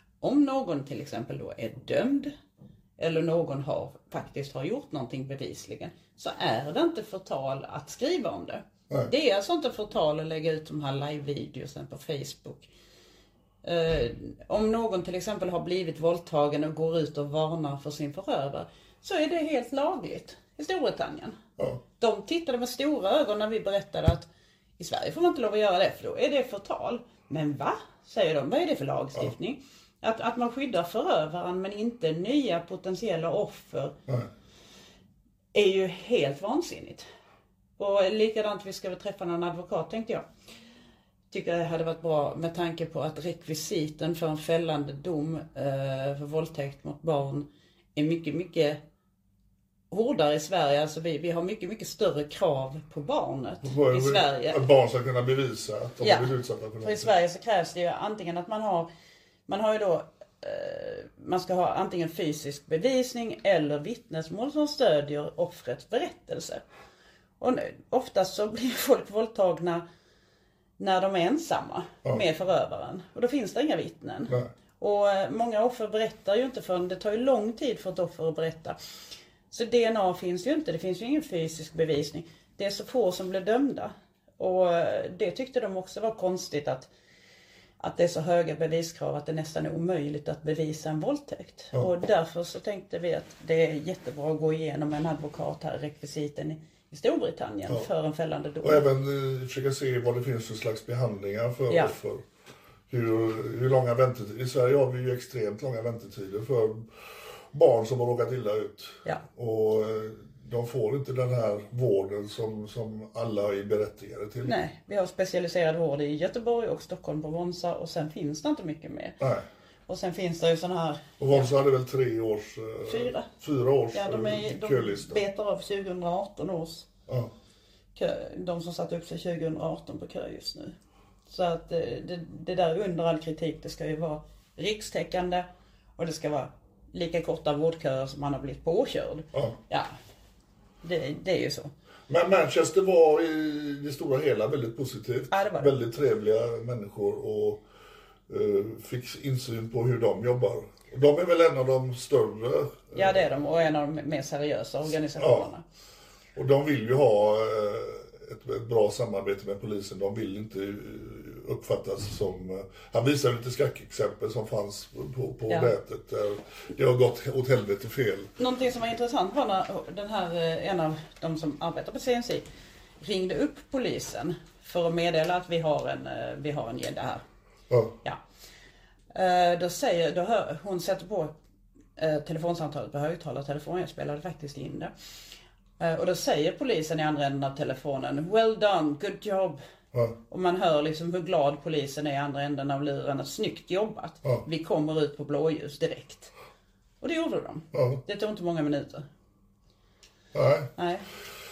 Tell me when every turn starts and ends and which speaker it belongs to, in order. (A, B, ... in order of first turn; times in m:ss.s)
0:00.2-0:02.3 A
0:03.0-0:12.7 A
0:13.6-0:21.4 A
0:22.0-0:24.3 A
0:24.8-0:34.0 A
0:35.5-0:37.1 A
0:37.8-0:40.3 A
0:41.3-0:48.8 A
0:49.9-0:54.6 A
0:53.6-0:57.1 B
0:56.0-0:58.9 A
0:59.5-1:06.6 A
1:07.4-1:09.8 A
1:10.8-1:18.8 A
1:19.5-1:26.9 A
1:27.8-1:38.8 A
1:38.6-1:42.2 B
1:41.7-1:42.0 A
1:42.9-1:46.9 B
1:47.5-1:54.6 B
1:54.4-1:59.2 A
1:59.2-1:59.5 B
1:59.9-2:01.5 A
2:01.2-2:05.2 B
2:02.9-2:03.3 A
2:03.9-2:06.9 A
2:08.0-2:10.8 A
2:11.3-2:15.5 A
2:16.0-2:19.9 A
2:20.8-2:21.7 A
2:22.1-2:27.6 B
2:25.3-2:25.7 A
2:28.3-2:33.2 B
2:32.9-2:35.6 A
2:35.2-2:35.5 B
2:36.4-2:48.3 B
2:45.5-2:45.7 A
2:48.4-2:52.4 A
2:53.0-2:57.2 A
2:57.7-2:58.0 B
2:59.1-3:01.3 A
3:02.0-3:04.9 A
3:05.8-3:09.6 A
3:10.3-3:16.3 A
3:17.0-3:19.1 A
3:17.7-3:18.0 B
3:20.3-3:20.7 B
3:20.8-3:21.1 A